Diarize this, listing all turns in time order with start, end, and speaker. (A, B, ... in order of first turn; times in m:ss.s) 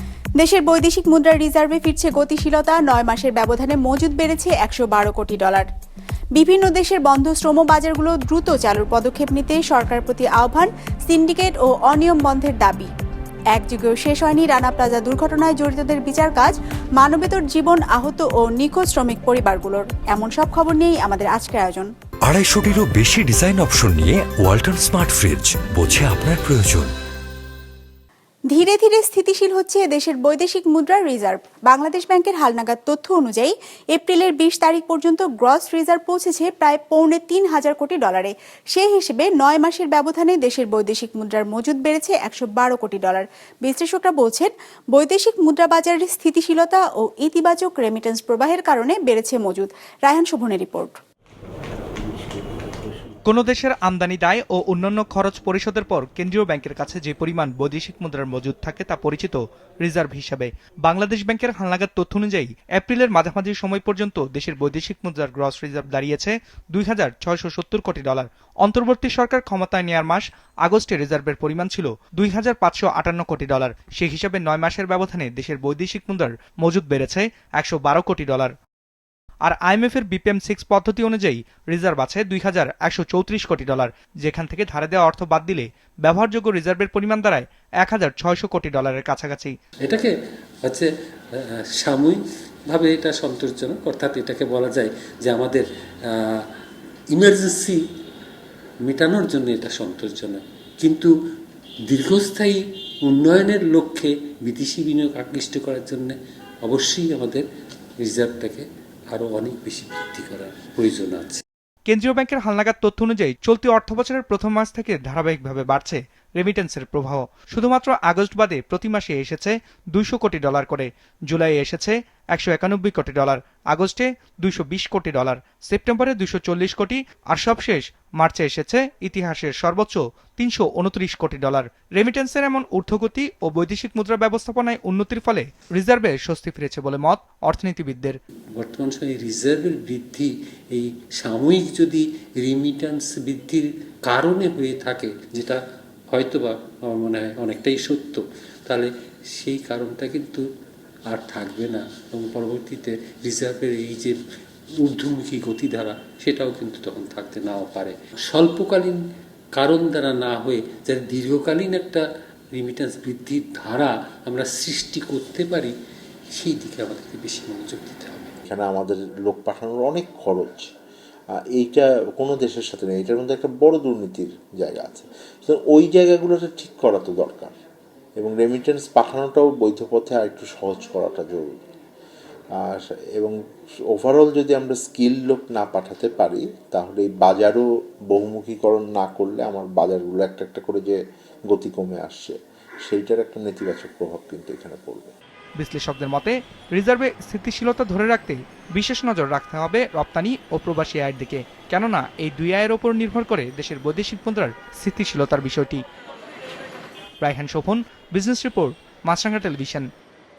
0:00.4-0:05.7 A
0:06.3-0:12.9 A
0:13.5-0:21.9 A
0:22.3-0:26.7 B
0:28.5-0:51.0 A
0:53.2-1:18.5 C
1:19.4-1:29.5 C
1:29.8-1:30.1 D
1:31.8-1:35.6 D
1:37.1-1:37.8 D
1:38.8-1:41.1 D
1:41.9-1:47.4 D
1:48.0-1:51.4 D
1:51.9-2:18.2 C
2:18.6-2:25.6 D
2:26.1-2:30.4 D
2:31.1-2:34.2 D
2:34.8-2:39.0 D
2:39.6-2:42.0 D
2:42.5-2:45.7 D
2:46.3-2:48.3 D
2:48.5-2:50.6 E
2:51.6-2:57.5 E
2:58.2-3:01.4 E
3:02.6-3:03.3 E
3:03.9-3:10.9 E
3:11.5-3:12.3 E
3:12.9-3:15.1 E
3:15.6-3:25.8 C
3:27.2-3:29.9 C